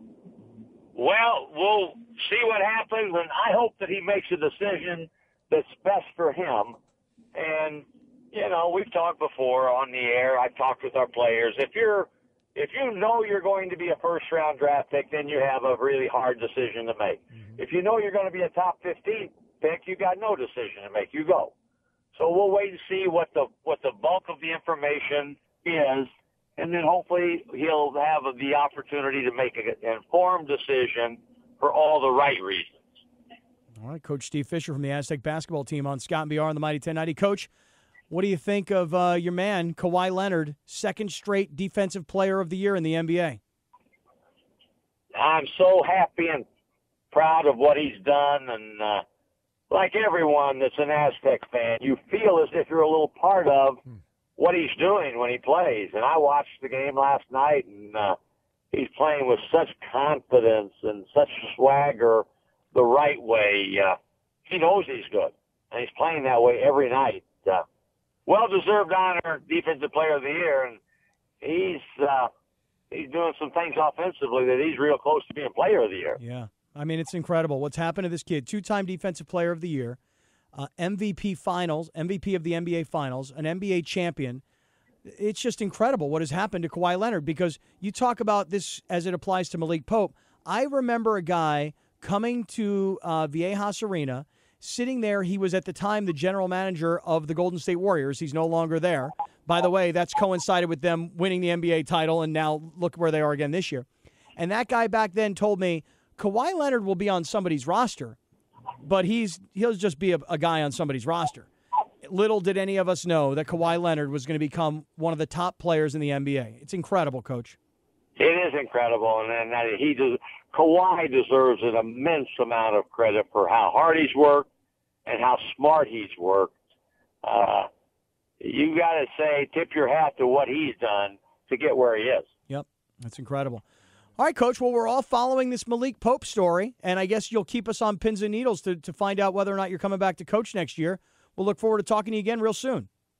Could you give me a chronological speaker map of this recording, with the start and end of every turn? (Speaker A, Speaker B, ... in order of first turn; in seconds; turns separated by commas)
Speaker A: 0.9-6.8, Speaker A: 7.3-21.5, Speaker A: 22.1-32.8, Speaker B: 33.8-37.5, Speaker B: 38.1-43.4, Speaker A: 45.1-46.4, Speaker A: 47.1-49.0, Speaker A: 49.7-53.8, Speaker A: 54.4-58.2, Speaker A: 58.7-67.6, Speaker A: 68.3-70.8, Speaker A: 71.4-72.3, Speaker A: 72.9-76.2, Speaker B: 76.2-80.0, Speaker B: 80.5-84.4, Speaker B: 85.0-103.8, Speaker B: 104.4-108.2, Speaker B: 108.8-111.5, Speaker B: 112.0-117.6, Speaker A: 118.2-124.5, Speaker A: 125.0-126.5, Speaker A: 127.2-127.7, Speaker A: 128.4-132.3, Speaker B: 132.5-133.6, Speaker B: 134.2-142.9